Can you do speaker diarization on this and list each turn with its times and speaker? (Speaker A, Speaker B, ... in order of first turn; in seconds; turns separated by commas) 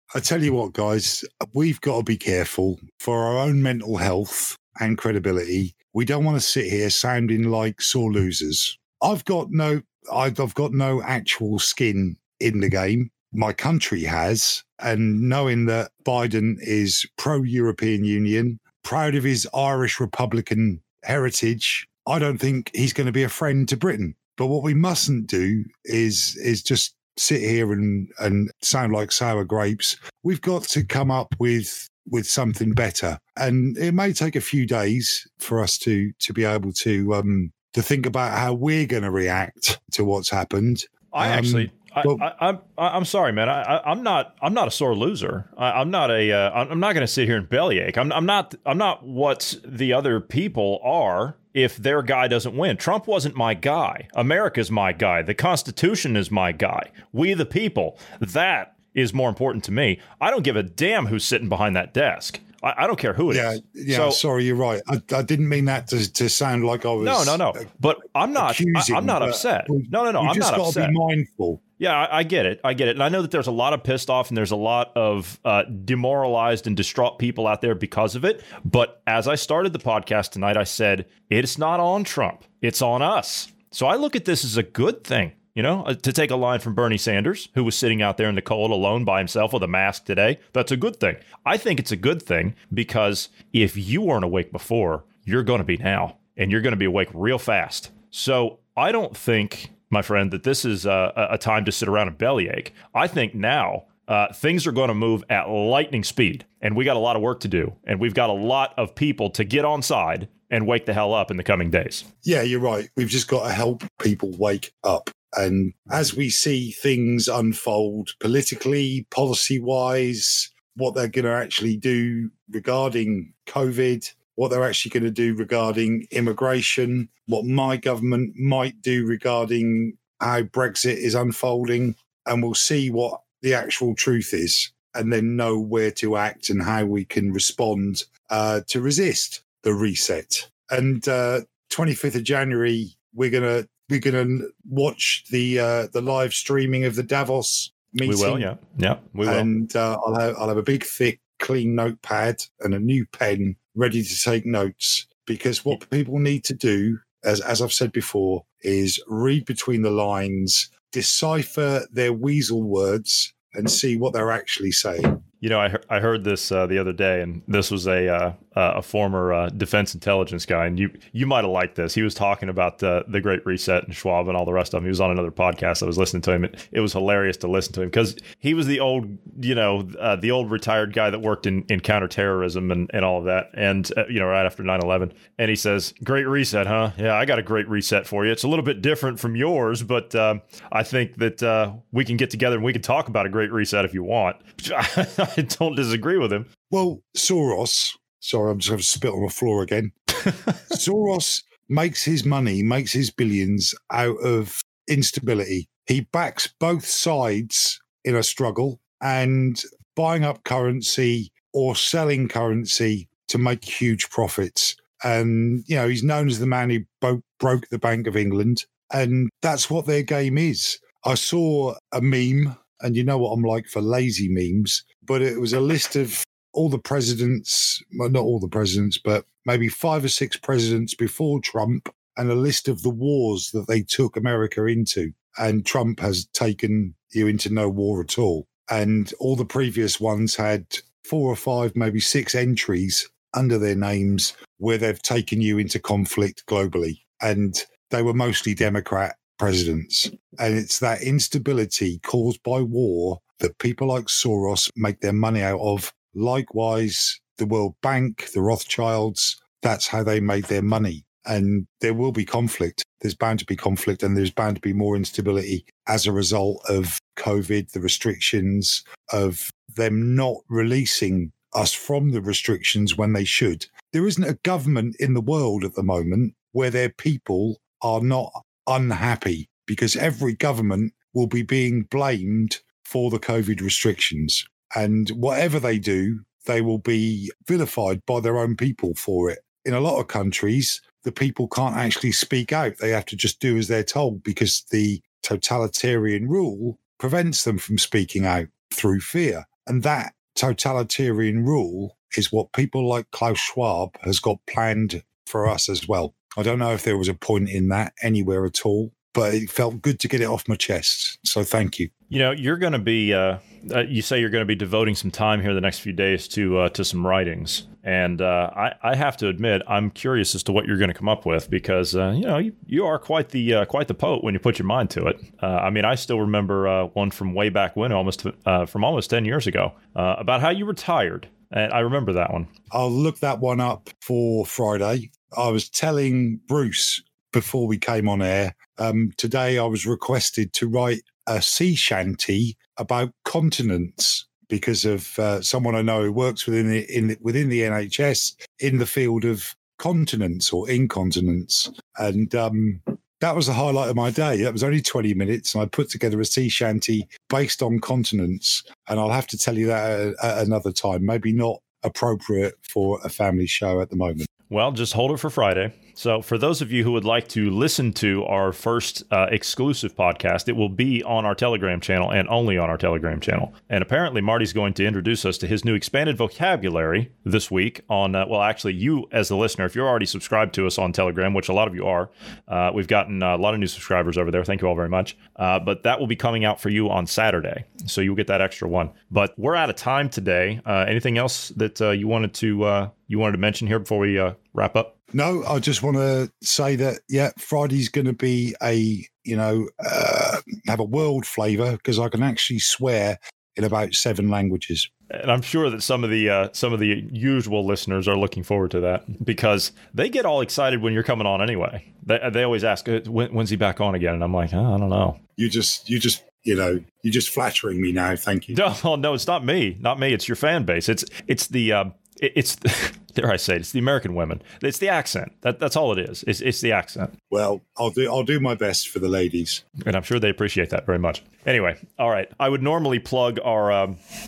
Speaker A: 0.1-42.2, Speaker B: 41.1-64.2, Speaker A: 63.3-67.7, Speaker B: 67.0-70.9, Speaker A: 68.3-71.6, Speaker B: 71.8-112.0, Speaker A: 112.2-148.5, Speaker B: 148.0-149.5, Speaker A: 149.2-165.2, Speaker B: 165.4-196.5, Speaker A: 196.7-311.9, Speaker B: 312.1-332.5, Speaker A: 332.7-364.3, Speaker B: 364.5-394.9, Speaker A: 395.1-404.9, Speaker B: 405.1-415.2, Speaker A: 415.4-418.6, Speaker B: 418.5-427.1, Speaker A: 427.3-429.6, Speaker B: 429.8-434.0